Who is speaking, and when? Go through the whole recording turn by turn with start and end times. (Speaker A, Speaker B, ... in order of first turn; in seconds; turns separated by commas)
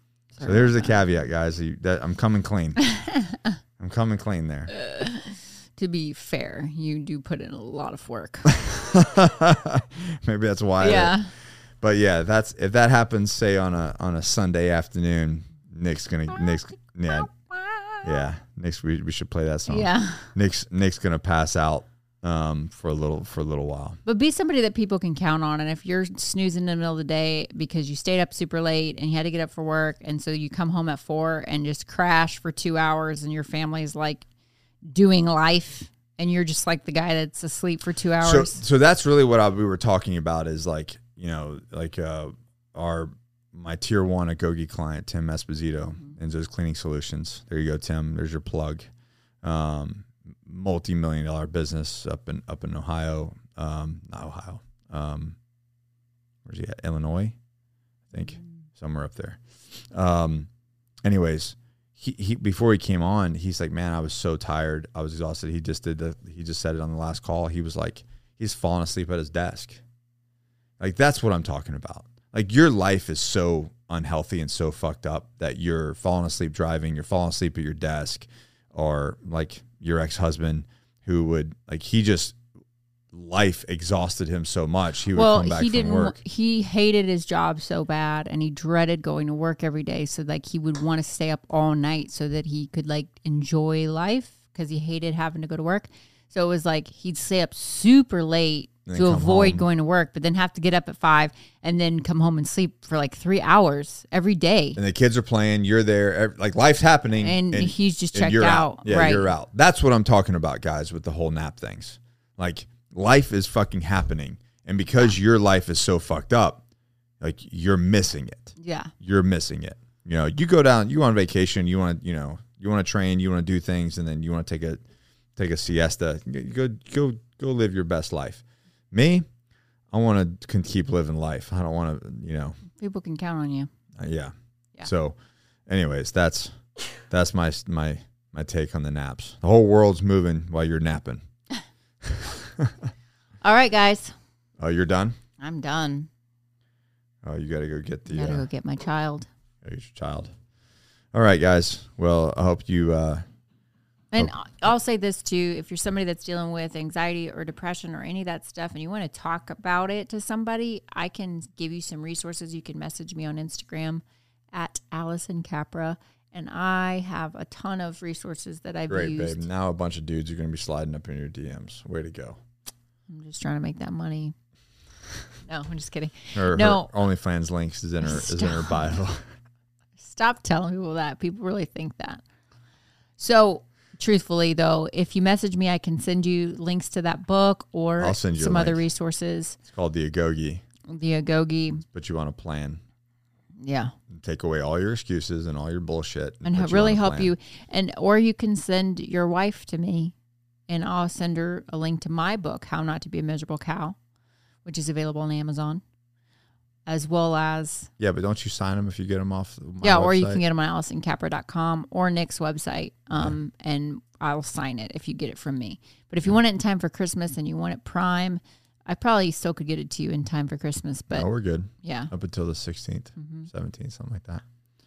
Speaker A: 0.3-1.0, Speaker B: 0.4-2.9, Speaker A: 2.8-3.5, Speaker B: 3.8-4.7, Speaker A: 4.7-8.5, Speaker B: 8.5-11.2, Speaker A: 10.8-11.3, Speaker B: 11.8-17.3, Speaker A: 16.3-16.6, Speaker A: 17.1-18.2, Speaker B: 18.0-24.0, Speaker A: 19.7-20.3, Speaker A: 24.0-34.2, Speaker A: 34.9-38.6, Speaker B: 38.2-48.9, Speaker B: 49.4-55.4, Speaker B: 56.4-57.4, Speaker B: 58.1-60.5, Speaker A: 58.2-58.4, Speaker B: 61.0-69.8, Speaker B: 70.8-82.4, Speaker B: 83.1-86.2, Speaker A: 85.1-104.8, Speaker B: 98.8-99.7, Speaker B: 104.8-116.6, Speaker A: 107.2-109.3, Speaker B: 117.2-124.8, Speaker A: 118.6-118.9, Speaker B: 125.3-129.2, Speaker B: 129.9-132.6, Speaker A: 132.8-133.7, Speaker B: 134.0-135.2, Speaker B: 135.7-141.2, Speaker B: 142.0-142.8, Speaker A: 143.4-144.1, Speaker B: 144.6-145.2, Speaker A: 145.4-146.1, Speaker B: 147.2-148.4, Speaker A: 148.1-149.3, Speaker B: 149.6-150.3, Speaker B: 151.1-153.2, Speaker A: 154.1-169.4, Speaker B: 168.9-172.4, Speaker A: 173.1-174.3, Speaker A: 175.4-176.9, Speaker B: 176.3-179.2, Speaker A: 178.0-178.8, Speaker A: 180.0-182.2, Speaker A: 183.2-189.6, Speaker B: 188.0-188.8, Speaker B: 189.7-190.6, Speaker A: 190.8-191.8, Speaker B: 191.8-192.8, Speaker A: 193.6-193.9, Speaker B: 194.1-197.3, Speaker A: 196.4-200.1, Speaker A: 200.7-204.0, Speaker A: 204.6-205.8, Speaker A: 206.8-207.9, Speaker B: 208.0-210.4, Speaker A: 209.8-221.3, Speaker B: 221.1-224.4, Speaker A: 221.8-222.1, Speaker A: 223.2-223.5